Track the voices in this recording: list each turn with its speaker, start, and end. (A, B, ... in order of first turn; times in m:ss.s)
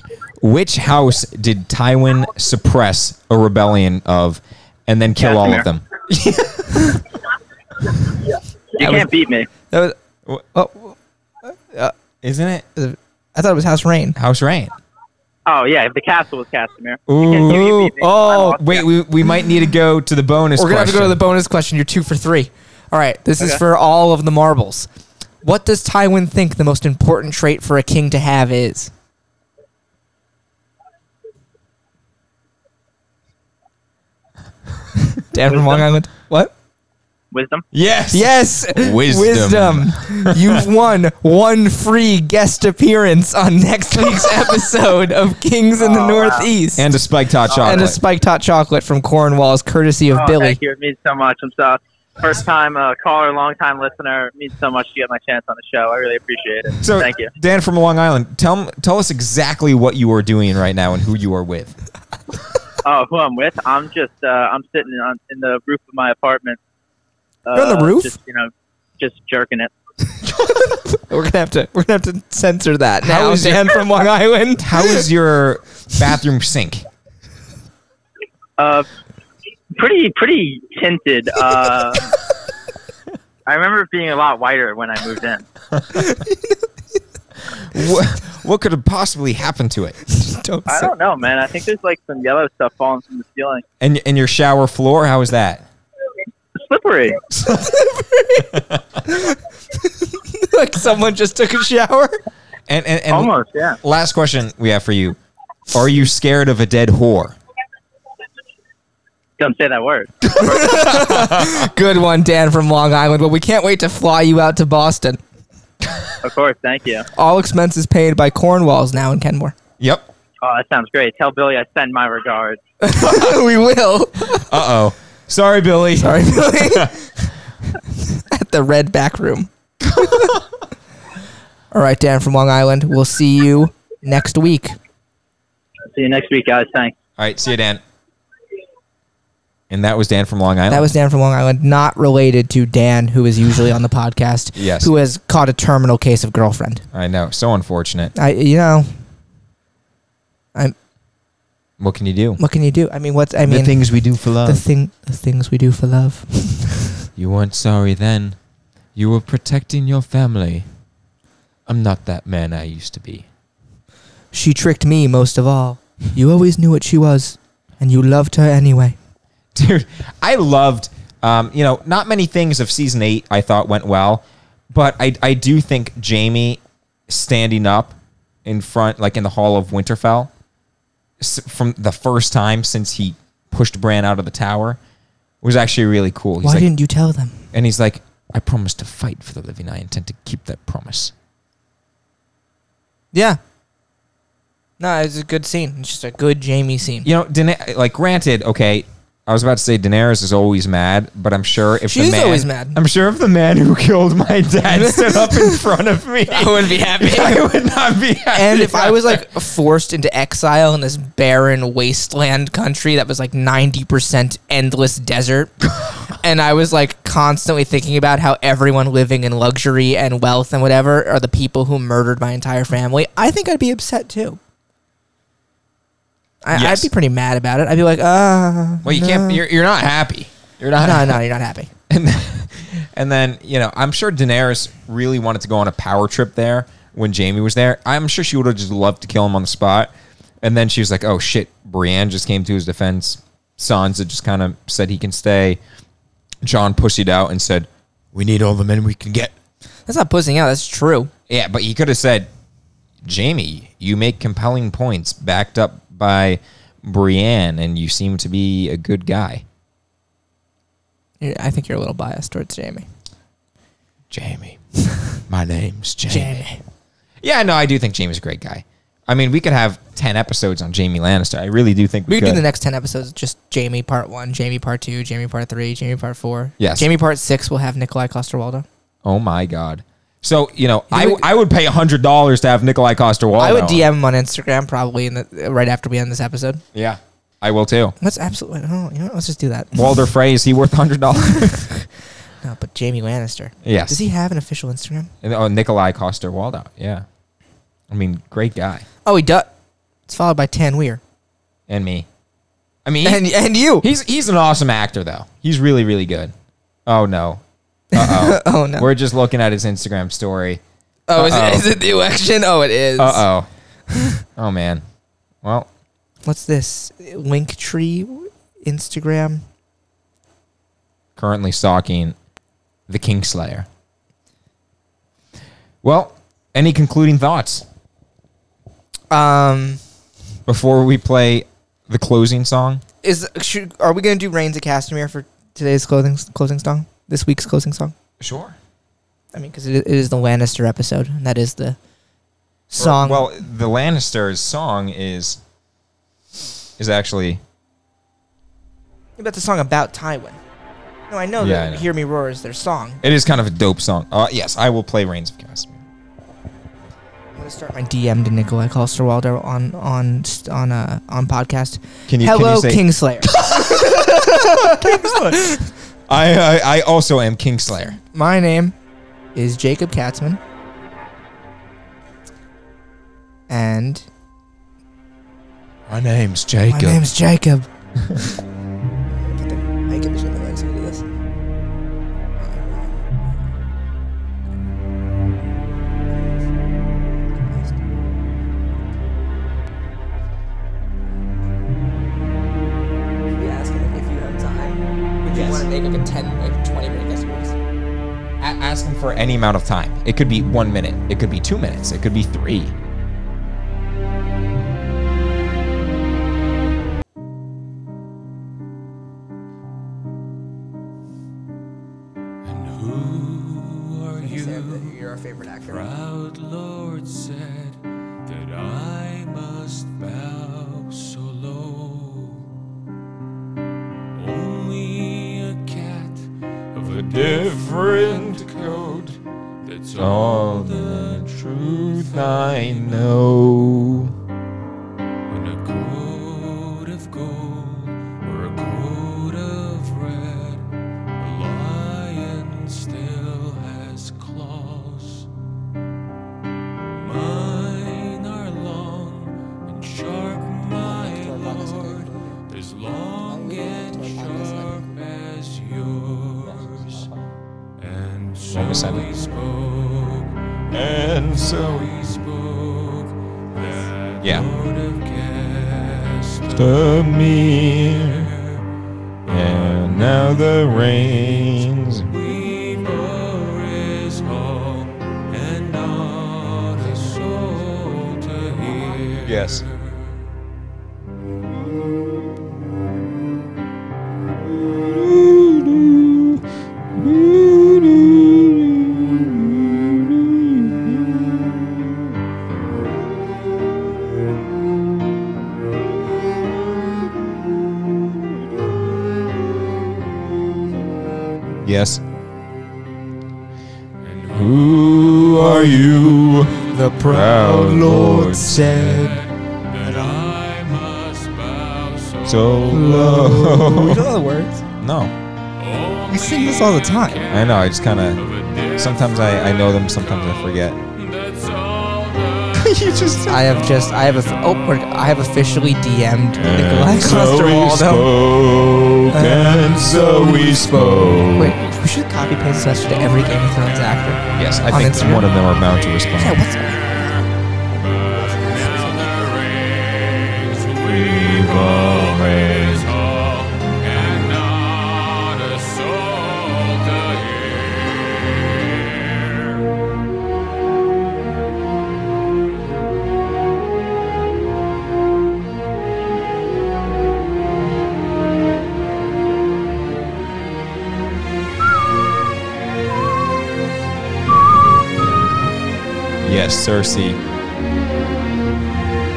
0:00.4-0:06.6 A
0:05.2-0:05.6 B
0:06.6-0:07.0 C
0:08.8-0:09.5 B
0:08.8-0:09.1 C
0:09.7-0:10.0 C
0:10.5-0:11.9 C
0:12.2-0:12.6 A
0:12.8-0:14.2 C
0:14.2-0:14.7 A
0:15.4-0:18.9 B
0:17.1-0:21.2 A
0:17.4-0:18.5 C
0:20.5-0:24.9 C
0:25.4-0:28.9 C
0:35.2-0:36.5 C
0:35.5-0:35.8 B
0:37.3-0:37.6 B
0:37.7-0:40.6 A
0:38.1-0:46.9 C
0:45.8-0:46.5 B
0:46.8-0:48.0 A
0:47.5-0:47.9 B
0:47.6-0:50.6 C
0:50.1-0:57.3 B
0:56.8-1:01.7 A
1:02.8-1:06.6 B
1:07.4-1:09.7 B
1:07.5-1:08.1 C
1:10.2-1:15.0 C
1:13.0-1:13.8 A
1:14.6-1:16.8 A
1:18.6-1:18.9 B
1:19.7-1:22.1 B
1:23.5-1:25.4 B
1:25.9-1:26.6 C
1:27.5-1:30.0 A
1:30.1-1:30.9 C
1:30.7-1:33.6 B
1:33.8-1:35.6 A
1:36.6-1:37.2 B
1:37.3-1:37.7 A
1:37.4-1:42.2 C
1:38.5-1:38.8 A
1:42.7-1:43.3 A
1:43.1-1:43.8 B
1:43.8-1:45.2 A
1:45.7-1:47.4 A
1:49.4-1:50.5 B
1:50.3-1:51.6 A
1:50.4-1:55.2 C
1:56.2-1:57.1 B
1:57.1-1:59.5 C
1:59.8-2:00.1 A
2:00.4-2:02.6 B
2:02.8-2:04.5 C
2:03.0-2:03.3 A
2:04.3-2:06.9 A
2:06.0-2:10.3 C
2:10.0-2:10.2 A
2:11.7-2:14.7 C
2:15.9-2:16.9 B
2:17.2-2:17.8 A
2:19.7-2:20.9 A
2:20.7-2:26.8 C
2:24.6-2:24.9 A
2:26.9-2:28.1 A
2:28.1-2:29.0 C
2:31.8-2:32.4 A
2:32.4-2:33.8 C
2:33.4-2:34.6 A
2:34.4-2:37.0 C
2:37.2-2:38.4 A
2:38.9-2:40.7 A
2:41.7-2:43.2 A
2:44.3-2:49.0 C
2:49.5-3:00.3 A
3:01.2-3:04.8 A
3:05.4-3:06.7 A
3:06.4-3:07.4 C
3:07.5-3:11.1 A
3:13.1-3:13.4 C
3:14.8-3:17.1 C
3:17.0-3:29.2 A
3:21.9-3:22.8 C
3:24.6-3:25.6 C
3:26.3-3:27.4 C
3:28.3-3:44.4 C
3:46.4-3:49.4 C
3:46.5-3:46.9 A
3:48.8-3:51.2 A
3:50.8-3:51.7 C
3:51.9-3:59.9 A
4:00.4-4:05.6 A
4:06.4-4:09.3 A
4:09.9-4:11.1 C
4:11.3-4:12.3 A
4:13.0-4:19.4 A
4:21.2-4:22.9 C
4:24.1-4:24.6 A
4:25.3-4:26.4 A
4:26.1-4:26.6 C
4:27.2-4:32.4 A
4:32.1-4:38.6 C
4:36.6-4:36.9 A
4:39.0-4:43.8 A
4:40.9-4:41.2 C
4:43.4-4:46.6 C
4:46.7-4:47.9 A
4:48.0-4:50.0 C
4:49.7-4:51.7 A
4:51.4-4:51.8 C
4:52.4-4:55.1 C
4:53.6-4:54.0 A
4:55.2-4:57.0 A
4:57.9-4:58.8 A
4:59.0-4:59.5 C
5:00.1-5:01.0 C
5:01.7-5:02.1 A
5:02.8-5:03.2 A
5:03.0-5:03.9 C
5:03.8-5:06.3 A
5:06.9-5:07.4 A
5:07.9-5:08.9 C
5:07.9-5:10.6 A
5:11.1-5:13.2 C
5:11.1-5:11.7 A
5:13.0-5:13.5 A
5:13.9-5:14.2 C
5:14.4-5:14.8 A
5:16.2-5:19.4 C
5:21.2-5:22.2 A
5:22.9-5:23.7 A
5:25.8-5:27.6 A
5:29.1-5:29.8 C
5:30.5-5:32.8 A
5:33.0-5:37.9 C
5:38.2-5:38.6 A
5:39.3-5:41.8 C
5:42.7-5:43.3 C
5:42.8-5:45.4 A
5:46.8-5:47.4 A
5:49.2-5:50.4 C
5:51.1-5:53.0 C
5:51.4-5:51.8 A
5:53.0-5:55.8 A
5:57.3-6:05.6 C
6:02.1-6:08.0 A
6:08.0-6:08.7 C
6:09.3-6:10.4 C
6:13.5-6:14.1 C
6:15.9-6:17.0 A
6:16.7-6:17.7 C
6:19.1-6:21.0 C
6:22.4-6:23.2 C
6:27.3-6:27.8 C
6:33.3-6:37.6 C
6:35.3-6:35.6 A
6:38.4-6:42.7 A
6:52.4-6:55.0 D
6:54.2-6:55.9 C
6:55.7-7:02.5 D
7:04.1-7:08.8 D
7:06.8-7:09.2 A
7:09.6-7:13.3 D
7:09.9-7:14.1 A
7:15.3-7:20.6 D
7:21.2-7:25.3 D
7:26.9-7:37.1 D
7:30.8-7:32.4 C
7:33.2-7:34.9 C
7:36.4-7:37.1 A
7:37.8-7:48.7 D
7:38.5-7:39.1 A
7:40.7-7:41.9 A
7:44.2-7:44.5 A
7:46.5-7:48.3 A
7:49.3-7:52.1 A
7:49.3-7:51.5 D
7:52.1-8:00.3 D
7:59.2-7:59.6 A
8:04.7-8:06.4 A
8:07.0-8:10.7 A
8:21.6-8:22.0 A
8:24.0-8:27.2 D
8:24.3-8:29.1 A
8:26.7-8:29.1 C
8:28.4-8:32.9 D
8:32.2-8:34.1 A
8:32.7-8:34.6 C
8:34.8-8:35.1 A
8:35.6-8:39.4 D
8:36.1-8:37.2 C
8:37.3-8:38.2 A
8:38.8-8:40.8 A
8:40.9-8:42.8 D
8:42.5-8:43.4 A
8:43.3-8:48.1 C
8:43.6-8:44.4 D
8:46.3-8:51.5 A
8:49.1-8:55.3 C
8:54.3-8:56.4 A
8:56.2-8:57.0 C
8:57.8-8:59.2 C
8:57.8-9:07.8 D
9:00.8-9:02.9 A
9:08.6-9:09.6 D
9:26.2-9:27.2 A